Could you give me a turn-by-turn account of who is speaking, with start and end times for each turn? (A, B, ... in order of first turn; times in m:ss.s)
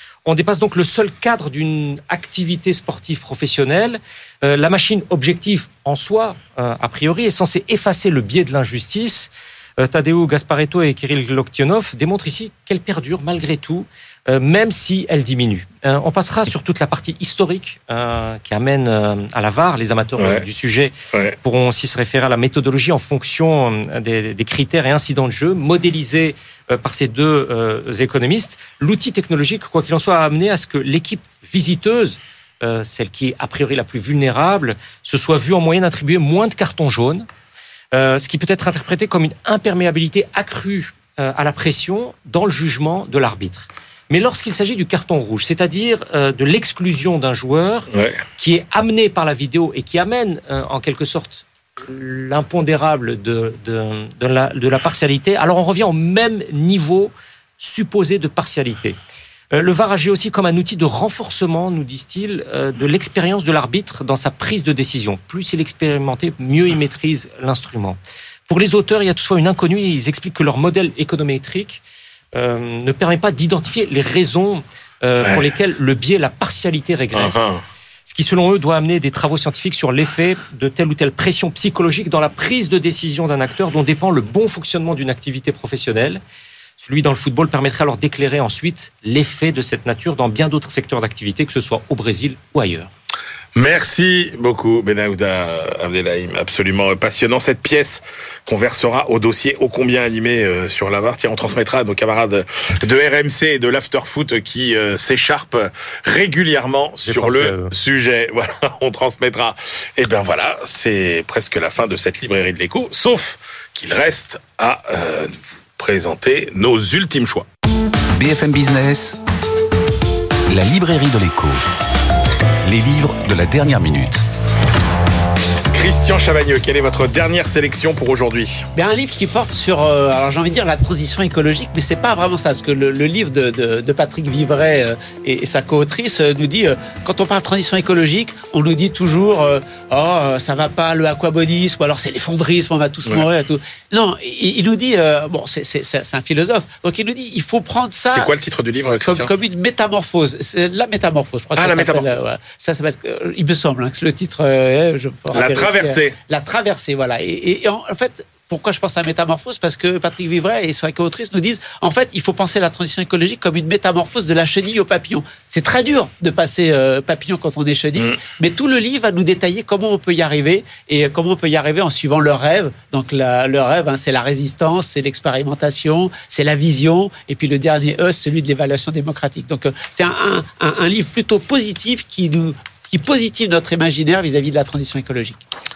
0:00.2-0:37.3 A
0:20.2-0:20.4 B
0:37.9-0:59.0 A
0:59.5-1:11.8 A
1:12.3-1:17.5 A
1:15.2-1:15.5 B
1:17.1-1:17.6 B
1:18.1-1:26.2 A
1:26.8-1:32.9 A
1:33.5-1:57.4 B
1:47.0-1:47.7 A
1:58.1-1:59.2 C
2:00.5-2:01.6 C
2:02.6-2:04.2 C
2:05.7-2:08.7 B
2:08.8-2:28.3 D
2:28.1-2:29.3 B
2:29.0-3:05.4 D
2:31.6-2:32.1 B
2:35.3-2:36.2 B